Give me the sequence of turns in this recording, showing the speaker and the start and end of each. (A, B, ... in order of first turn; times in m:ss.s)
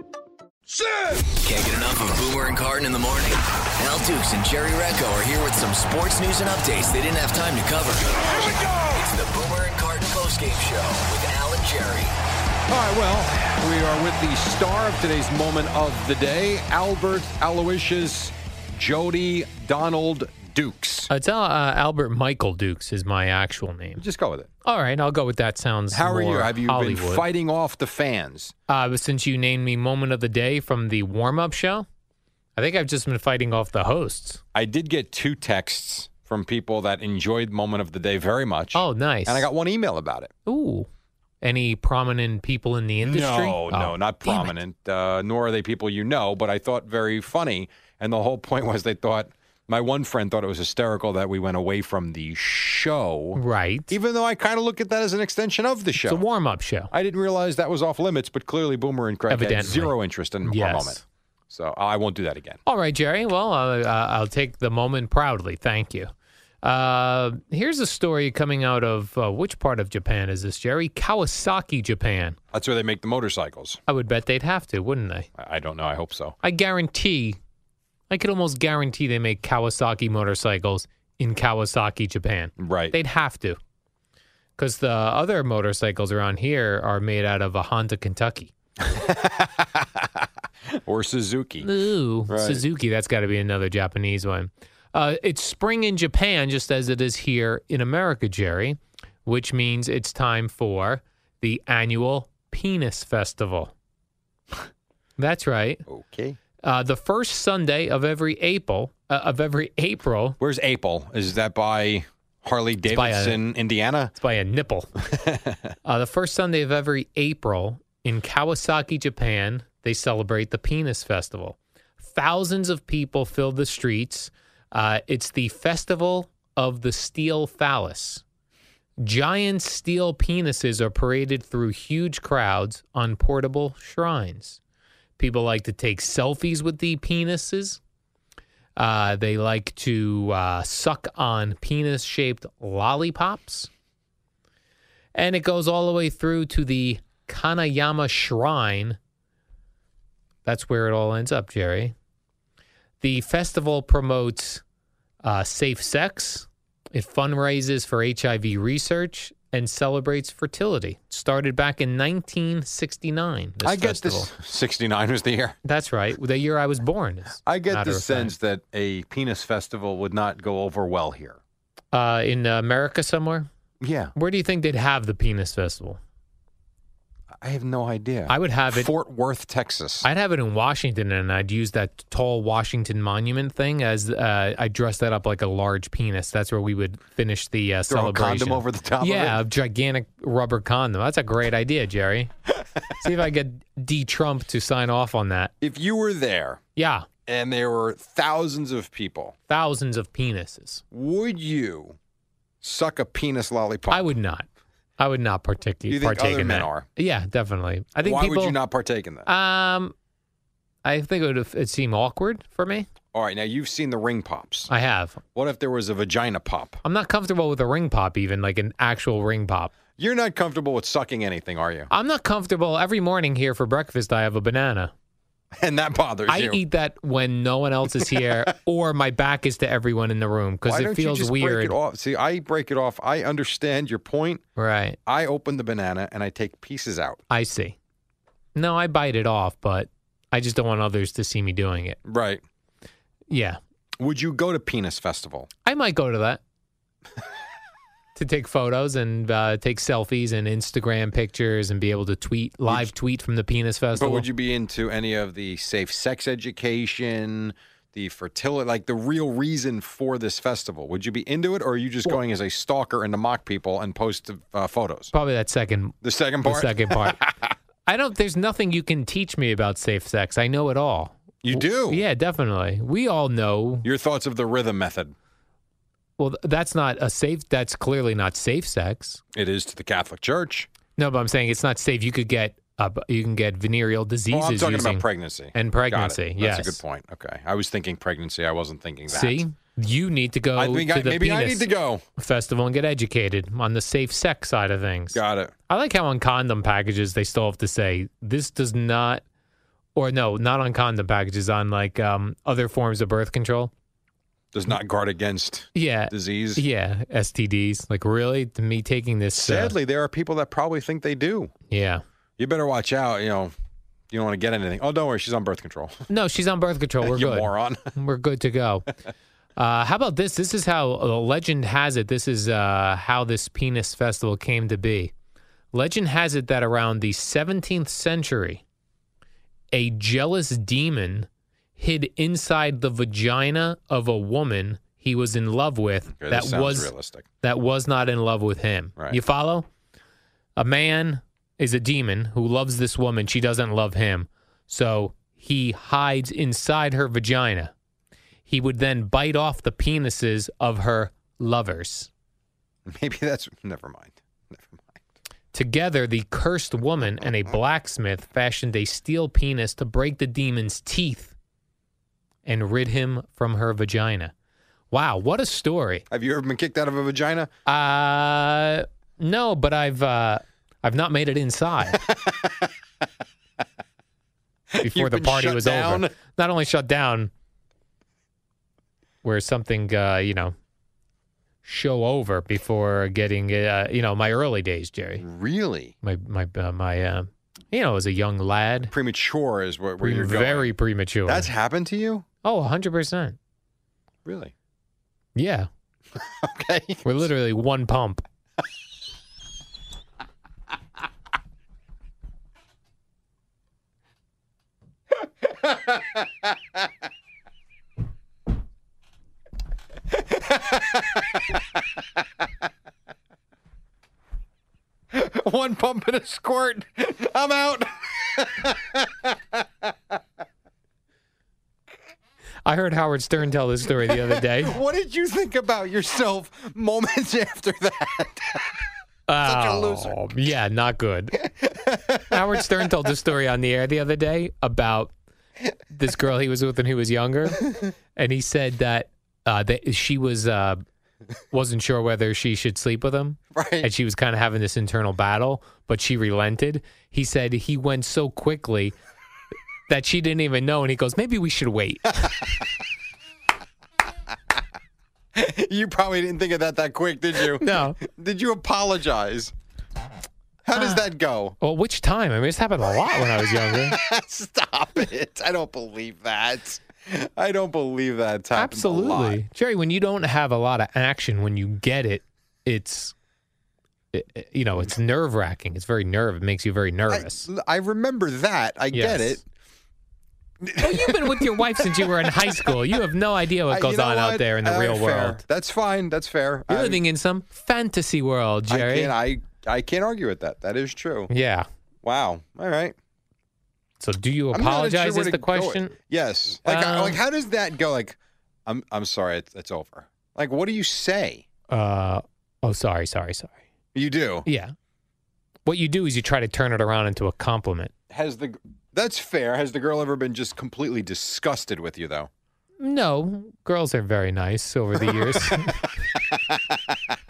0:01.4-0:12.1 A
0:08.5-0:08.9 B
0:12.7-0:21.1 B
0:21.1-0:24.0 C
0:24.0-0:24.5 B
0:24.6-0:27.3 C
0:25.9-0:28.5 B
0:28.7-0:31.9 C
0:32.6-0:34.4 C
0:34.6-0:40.3 B
0:38.8-0:39.4 C
0:40.5-0:40.9 C
0:41.4-0:44.5 C
0:43.0-0:56.2 B
0:53.4-0:53.9 C
0:56.0-0:56.9 C
0:56.9-1:02.6 B
0:59.3-1:01.0 C
1:02.7-1:06.1 C
1:06.6-1:12.4 C
1:12.5-1:13.8 B
1:13.9-1:15.3 C
1:15.4-1:16.4 B
1:16.4-1:17.4 C
1:18.1-1:23.6 C
1:22.6-1:23.0 B
1:24.6-1:28.5 C
1:28.8-1:30.1 B
1:30.7-1:31.7 B
1:31.6-1:43.7 C
1:32.3-1:32.6 B
1:45.2-1:45.8 C
1:45.9-1:46.4 B
1:46.6-1:50.4 C
1:50.4-1:54.1 B
1:52.9-1:53.4 C
1:54.2-1:54.9 C
1:55.1-1:55.7 B
1:55.8-2:08.2 C
2:09.0-2:14.6 C
2:15.2-2:17.8 C
2:18.8-2:23.7 C
2:25.2-2:29.0 C
2:30.4-2:31.9 C
2:33.0-2:34.6 C
2:35.2-2:44.3 C
2:43.6-2:45.6 B
2:45.6-2:48.3 C
2:47.4-2:51.4 B
2:51.9-2:53.5 C
2:53.8-2:54.1 B
2:54.2-2:56.0 C
2:57.4-3:00.1 B
2:58.3-2:58.9 C
3:00.0-3:12.3 C
3:07.9-3:09.4 B
3:13.0-3:15.5 C
3:15.6-3:16.6 B
3:16.8-3:17.1 C
3:17.3-3:19.4 B
3:19.5-3:20.8 C
3:20.9-3:22.0 B
3:22.6-3:24.1 B
3:23.9-3:24.5 C
3:25.0-3:28.6 C
3:25.9-3:26.9 B
3:28.0-3:29.3 B
3:29.3-3:29.9 C
3:30.8-3:32.9 C
3:33.1-3:34.7 B
3:34.7-3:35.2 C
3:35.4-3:36.8 B
3:36.8-3:39.7 C
3:40.0-3:41.9 B
3:41.9-3:44.9 C
3:45.6-3:46.6 B
3:46.3-3:51.8 C
3:50.7-3:54.4 B
3:54.6-3:55.0 C
3:55.1-3:57.2 B
3:57.3-3:57.8 C
3:58.6-4:02.0 C
4:02.0-4:02.4 B
4:03.3-4:03.6 C
4:04.0-4:05.5 B
4:05.7-4:06.4 C
4:08.2-4:14.3 C
4:14.0-4:25.1 B
4:25.1-4:27.2 C
4:26.0-4:27.3 B
4:27.8-4:33.9 C
4:31.4-4:32.0 B
4:33.8-4:35.2 B
4:36.2-4:39.2 C
4:39.4-4:40.7 B
4:41.0-4:46.8 C
4:44.3-4:49.4 B
4:49.1-4:59.2 C
4:50.6-4:52.0 B
4:55.1-4:55.5 B
5:00.0-5:03.7 C
5:04.5-5:06.6 B
5:05.8-5:09.8 C
5:09.4-5:11.5 B
5:11.7-5:12.0 C
5:12.4-5:13.5 B
5:14.1-5:16.1 B
5:16.1-5:18.9 C
5:17.0-5:17.9 B
5:19.6-5:25.1 C
5:25.7-5:28.6 C
5:29.7-5:36.9 C
5:36.2-5:37.2 B
5:37.4-5:39.7 C
5:40.6-5:47.7 C
5:48.5-5:52.1 C
5:52.9-5:55.0 B
5:55.5-6:01.3 C
6:02.4-6:04.3 C
6:04.9-6:06.1 C
6:06.1-6:07.5 B
6:07.7-6:12.0 C
6:12.0-6:12.5 B
6:14.7-6:16.1 B
6:14.8-6:17.3 C
6:19.2-6:20.6 C
6:21.6-6:25.2 C
6:25.2-6:25.9 B
6:26.0-6:28.9 C
6:28.9-6:30.7 B
6:30.0-6:31.5 C
6:31.3-6:32.2 B
6:32.4-6:33.4 C
6:34.2-6:34.5 B
6:35.4-6:35.7 C
6:36.2-6:37.3 B
6:37.0-6:38.2 C
6:45.6-6:46.2 B
6:50.3-6:51.4 B
6:55.1-6:59.3 B
7:02.6-7:04.8 C
7:04.1-7:08.7 B
7:09.3-7:11.4 C
7:09.4-7:10.2 B
7:11.4-7:12.8 B
7:12.3-7:15.1 C
7:15.9-7:17.6 C
7:18.2-7:20.8 C
7:21.5-7:29.0 C
7:23.5-7:23.9 B
7:29.9-7:32.4 C
7:35.4-7:39.5 B
7:37.5-7:38.0 C
7:40.6-7:41.6 B
7:40.7-7:41.1 C
7:41.6-7:44.0 C
7:43.4-7:49.4 B
7:48.6-7:53.1 C
7:54.1-7:57.5 C
7:57.1-7:59.4 B
7:58.9-7:59.4 C
8:00.6-8:02.9 B
8:00.8-8:05.4 C
8:03.7-8:07.0 B
8:06.7-8:09.1 C
8:08.7-8:11.3 B
8:11.3-8:11.7 C
8:12.0-8:13.0 B
8:14.0-8:16.0 C
8:14.5-8:21.4 B
8:16.6-8:17.2 C
8:21.7-8:23.6 C
8:23.9-8:24.5 B
8:24.5-8:24.7 C
8:25.7-8:27.9 C
8:28.1-8:32.3 B
8:32.8-8:35.8 C
8:35.0-8:37.0 B